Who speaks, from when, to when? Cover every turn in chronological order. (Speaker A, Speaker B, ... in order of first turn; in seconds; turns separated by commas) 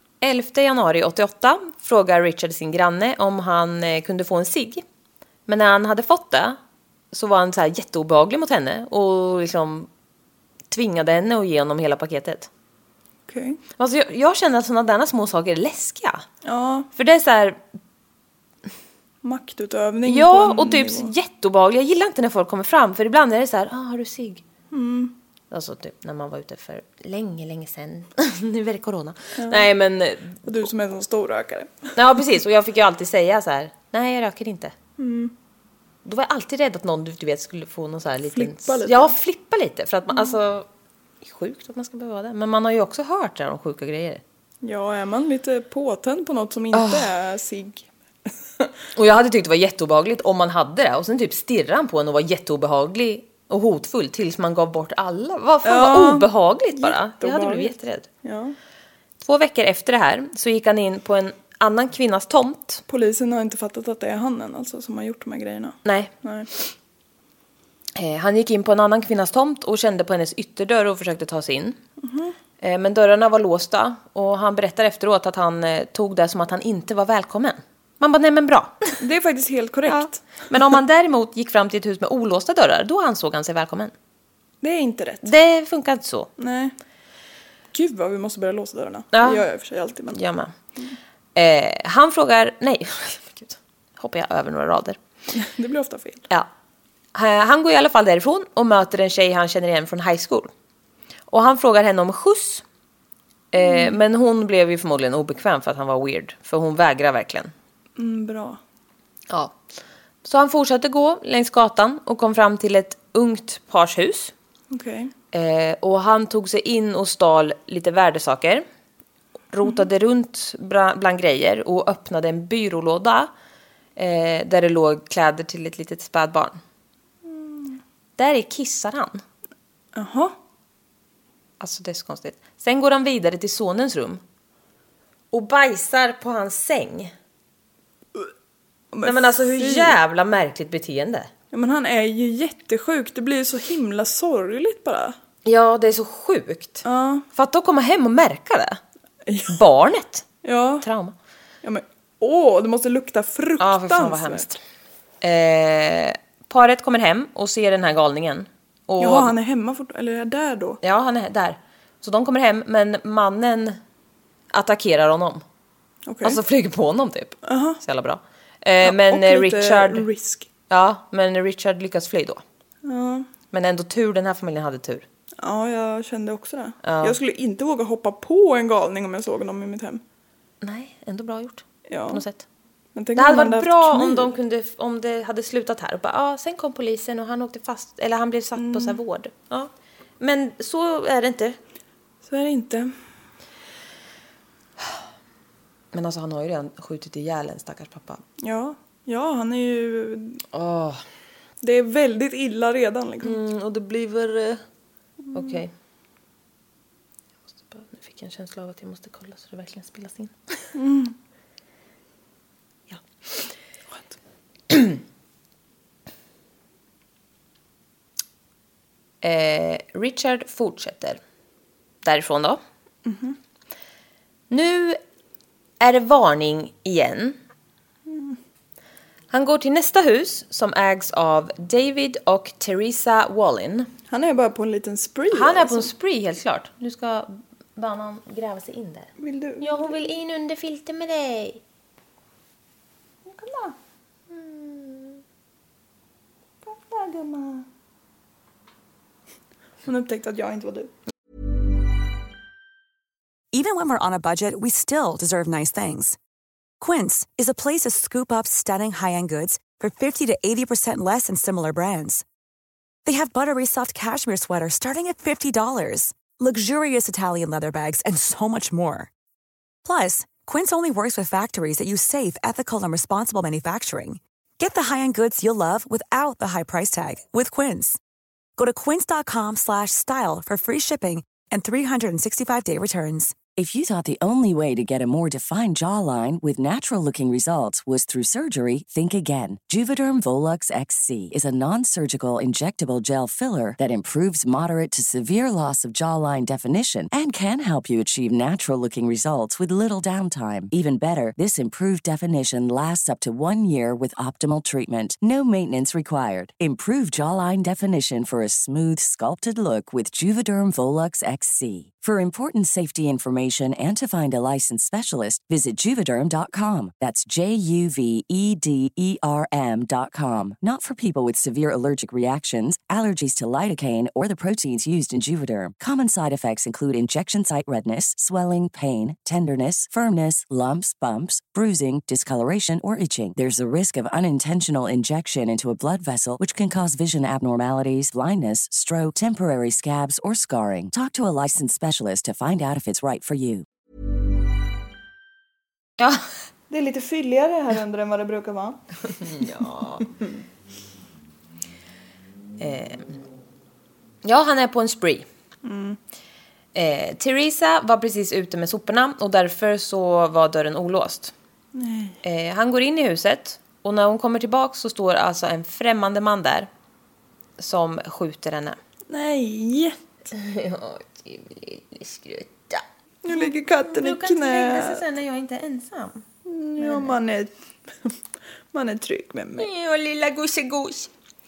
Speaker A: 0.2-4.8, Speaker A: 5.5-6.6, Speaker A: 7.1-9.9, Speaker A: 10.7-12.5, Speaker B: 13.3-13.6, Speaker A: 13.8-16.2, Speaker B: 16.4-16.9, Speaker A: 16.9-17.6, Speaker B: 19.2-21.1, Speaker A: 20.0-24.4, Speaker B: 24.7-25.1, Speaker A: 25.5-30.4, Speaker B: 29.4-29.6, Speaker B: 30.4-31.9, Speaker A: 31.9-34.7, Speaker B: 35.0-35.3, Speaker A: 36.0-40.7, Speaker B: 38.3-39.1, Speaker A: 41.2-44.2, Speaker B: 44.6-47.9, Speaker A: 46.7-47.1, Speaker A: 49.0-58.1, Speaker B: 55.6-57.7, Speaker B: 58.2-58.5, Speaker A: 59.2-62.8, Speaker B: 62.9-66.5, Speaker A: 65.8-66.1, Speaker A: 68.0-71.8, Speaker B: 72.0-72.3, Speaker A: 72.6-79.0, Speaker B: 79.0-80.2, Speaker A: 79.9-83.9, Speaker B: 84.6-85.3, Speaker A: 85.2-86.3, Speaker B: 86.4-86.7, Speaker B: 87.7-90.2, Speaker A: 89.1-89.4, Speaker A: 90.1-90.5, Speaker A: 91.3-95.0, Speaker B: 95.3-96.2, Speaker A: 97.1-100.5, Speaker A: 101.3-102.6, Speaker A: 103.5-107.5, Speaker B: 103.6-104.0, Speaker B: 108.0-108.6, Speaker A: 109.3-109.5, Speaker A: 110.2-114.3, Speaker B: 114.7-115.1, Speaker A: 115.3-118.6, Speaker A: 119.5-123.3, Speaker A: 124.0-126.6, Speaker B: 127.2-127.8, Speaker A: 128.2-129.2, Speaker B: 129.9-130.3, Speaker A: 131.6-134.2, Speaker A: 135.3-137.1, Speaker B: 138.9-139.9, Speaker A: 139.0-141.3, Speaker B: 141.5-145.2, Speaker A: 145.4-148.8, Speaker B: 146.8-147.2, Speaker B: 149.3-149.6, Speaker A: 149.5-150.2, Speaker B: 150.4-150.8, Speaker A: 150.8-151.1, Speaker B: 151.6-154.4, Speaker A: 153.6-154.6, Speaker A: 155.2-159.3, Speaker B: 159.0-160.8, Speaker A: 160.8-163.8, Speaker A: 164.5-165.4, Speaker B: 166.1-166.4, Speaker A: 166.2-170.1, Speaker B: 167.4-167.8, Speaker B: 168.8-170.5, Speaker A: 170.7-172.4, Speaker B: 172.8-173.3, Speaker A: 173.5-175.0, Speaker B: 175.4-180.0, Speaker A: 176.8-177.2, Speaker A: 180.6-182.4, Speaker B: 181.9-182.2, Speaker B: 182.9-184.3, Speaker A: 183.2-191.6, Speaker B: 188.6-189.0, Speaker B: 192.2-192.9, Speaker A: 195.9-198.2, Speaker B: 198.4-200.4, Speaker A: 200.5-201.0, Speaker B: 201.6-203.4, Speaker A: 203.2-204.6, Speaker A: 205.3-205.7, Speaker A: 207.7-210.3, Speaker B: 210.7-211.1, Speaker A: 214.7-215.0, Speaker A: 219.2-221.2, Speaker A: 222.0-222.6, Speaker B: 223.0-223.4, Speaker A: 224.5-225.0, Speaker A: 225.8-227.4, Speaker B: 228.1-228.4, Speaker A: 229.3-233.9, Speaker B: 234.1-235.9, Speaker A: 235.3-239.1, Speaker B: 239.2-239.9, Speaker A: 239.6-241.6, Speaker B: 243.2-243.8, Speaker A: 244.3-245.2, Speaker B: 246.6-247.7, Speaker B: 249.8-250.9, Speaker C: 253.5-256.2, Speaker C: 256.8-262.2, Speaker C: 263.0-269.1, Speaker C: 269.8-278.0, Speaker C: 278.6-283.5, Speaker D: 283.5-343.6, Speaker A: 346.0-346.2, Speaker B: 346.7-348.8, Speaker A: 349.2-350.1, Speaker A: 352.6-353.1, Speaker A: 354.2-355.2, Speaker B: 355.6-356.0, Speaker A: 356.7-361.3, Speaker B: 361.7-362.2, Speaker A: 362.2-366.7, Speaker A: 367.6-368.8, Speaker B: 369.1-370.0, Speaker A: 370.3-376.2, Speaker B: 373.2-375.0, Speaker B: 376.5-378.1, Speaker A: 376.8-377.1, Speaker B: 378.7-379.7, Speaker A: 379.6-381.1